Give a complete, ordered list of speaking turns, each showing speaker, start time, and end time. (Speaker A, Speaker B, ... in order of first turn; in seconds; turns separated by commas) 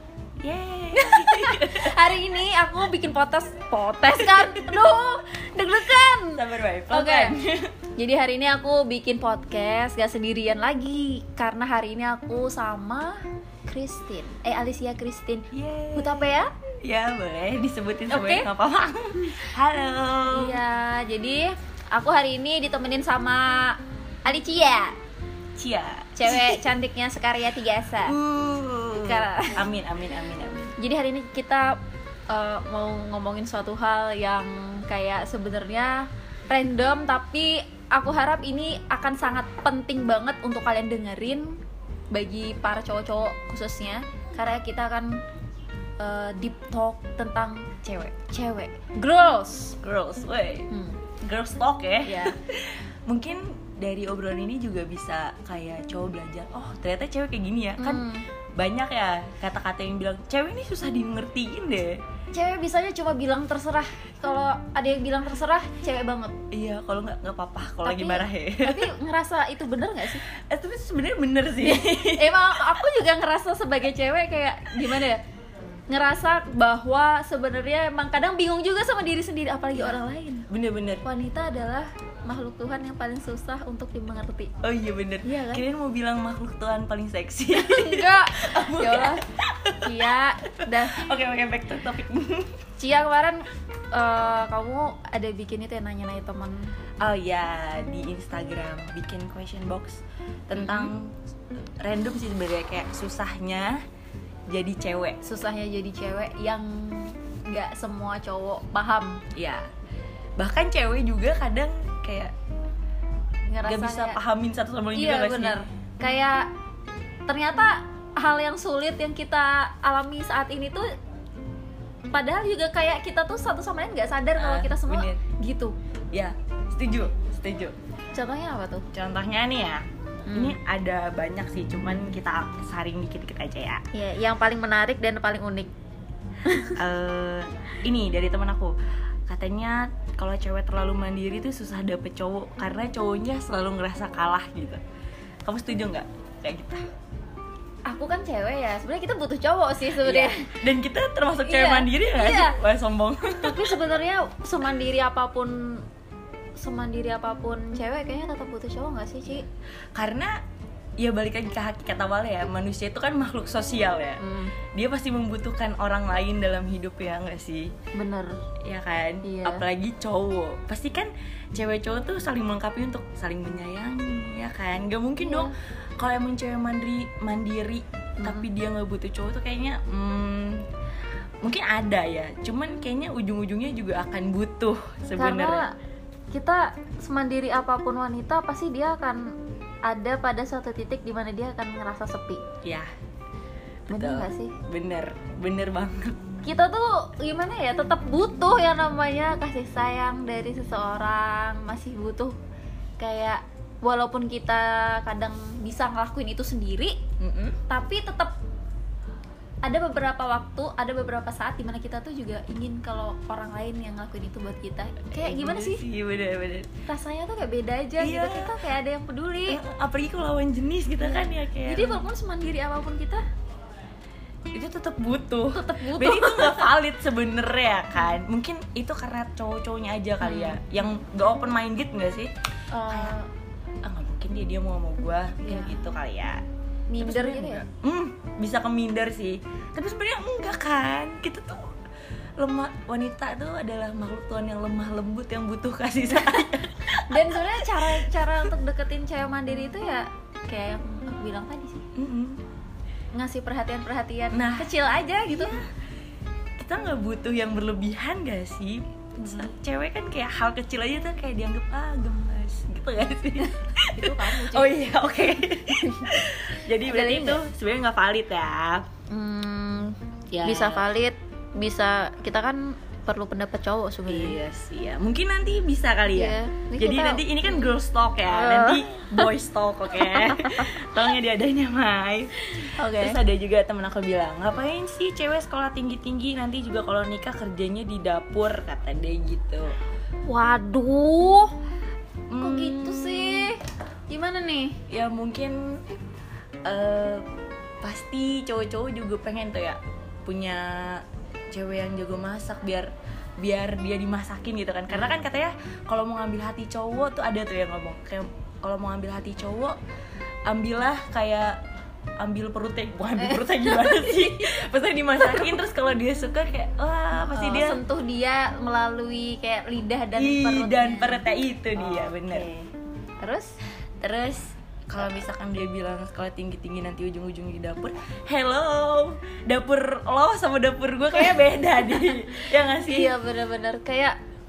Speaker A: 0.4-2.0, Speaker B: 0.9-7.3, Speaker A: 4.3-4.8, Speaker A: 6.3-7.7, Speaker B: 8.0-16.5, Speaker A: 15.5-16.3, Speaker A: 16.8-20.6, Speaker B: 18.1-18.5, Speaker B: 20.3-24.9, Speaker A: 25.6-26.6, Speaker B: 26.1-28.1, Speaker A: 28.0-30.7, Speaker B: 29.0-29.6, Speaker B: 30.8-31.8, Speaker B: 32.3-41.6, Speaker B: 42.1-45.2, Speaker B: 46.0-49.8, Speaker A: 49.8-50.7, Speaker B: 50.7-51.0, Speaker A: 51.2-58.0, Speaker B: 52.0-52.4, Speaker B: 57.8-58.2, Speaker A: 58.5-62.0, Speaker B: 62.3-66.3, Speaker A: 66.5-68.9, Speaker B: 67.8-70.2, Speaker A: 70.3-72.6, Speaker B: 71.8-75.2, Speaker B: 75.9-80.5, Speaker A: 79.8-81.0, Speaker B: 81.0-84.5, Speaker A: 84.6-92.6, Speaker B: 85.2-85.6, Speaker B: 87.5-89.2, Speaker B: 89.8-91.0, Speaker B: 92.8-96.7, Speaker A: 97.0-103.8, Speaker B: 100.5-100.9, Speaker A: 104.5-105.2, Speaker B: 105.2-109.2, Speaker A: 109.3-109.7, Speaker A: 110.4-112.3, Speaker B: 113.5-114.2, Speaker A: 113.6-115.6, Speaker B: 114.9-116.5, Speaker B: 117.3-120.9, Speaker B: 122.1-125.7, Speaker A: 124.3-125.2, Speaker A: 126.1-127.8, Speaker B: 128.1-128.9, Speaker A: 128.9-133.8, Speaker B: 130.2-130.6, Speaker B: 133.9-135.7, Speaker B: 136.4-136.8, Speaker A: 136.6-138.7, Speaker A: 139.3-144.8, Speaker A: 145.4-146.8, Speaker B: 147.9-150.5, Speaker A: 150.0-153.8, Speaker B: 151.4-152.6, Speaker B: 153.2-155.8, Speaker B: 156.6-159.4, Speaker A: 159.9-160.3, Speaker A: 161.0-164.2, Speaker B: 164.2-164.5, Speaker A: 164.7-167.7, Speaker B: 167.9-168.4, Speaker A: 168.6-180.7, Speaker B: 169.2-169.6, Speaker B: 175.2-175.5, Speaker B: 178.2-178.5, Speaker A: 181.4-185.7, Speaker B: 185.2-185.7, Speaker B: 186.3-189.3, Speaker B: 189.8-192.4, Speaker A: 192.6-192.9, Speaker A: 193.9-196.2, Speaker B: 193.9-194.5, Speaker B: 196.4-202.4, Speaker B: 203.0-207.0, Speaker A: 207.2-207.6, Speaker B: 207.7-208.3, Speaker B: 209.6-215.8, Speaker A: 215.1-216.7, Speaker B: 216.9-219.6, Speaker A: 218.0-218.6, Speaker A: 219.5-222.0, Speaker B: 221.0-223.2, Speaker A: 224.5-232.3, Speaker B: 225.5-226.7, Speaker B: 230.2-230.6, Speaker B: 232.7-233.3, Speaker A: 232.9-233.2, Speaker A: 233.8-236.4, Speaker B: 235.4-235.8, Speaker B: 236.9-237.6, Speaker A: 237.0-241.8, Speaker A: 242.4-248.5, Speaker B: 246.1-246.4, Speaker B: 246.9-251.9, Speaker A: 251.9-252.4, Speaker B: 253.1-255.6, Speaker A: 254.3-254.7, Speaker A: 255.3-255.7, Speaker A: 256.6-268.9, Speaker B: 259.2-259.5, Speaker B: 263.4-264.7, Speaker B: 265.7-266.1, Speaker B: 266.8-267.4, Speaker B: 269.1-274.4, Speaker A: 270.3-270.9, Speaker A: 274.1-289.8, Speaker B: 276.1-277.7, Speaker B: 278.2-279.3, Speaker B: 279.9-280.9, Speaker B: 282.5-283.2, Speaker B: 290.3-291.5, Speaker A: 292.3-293.5, Speaker B: 292.4-294.8, Speaker A: 294.9-295.8, Speaker A: 296.6-297.2, Speaker A: 297.8-309.8, Speaker B: 304.9-305.2, Speaker A: 310.4-311.6, Speaker A: 312.2-317.8, Speaker B: 313.2-314.5, Speaker B: 315.2-315.5, Speaker B: 317.2-322.7, Speaker A: 320.1-322.5, Speaker B: 323.2-323.6, Speaker A: 324.0-333.2, Speaker B: 331.1-334.2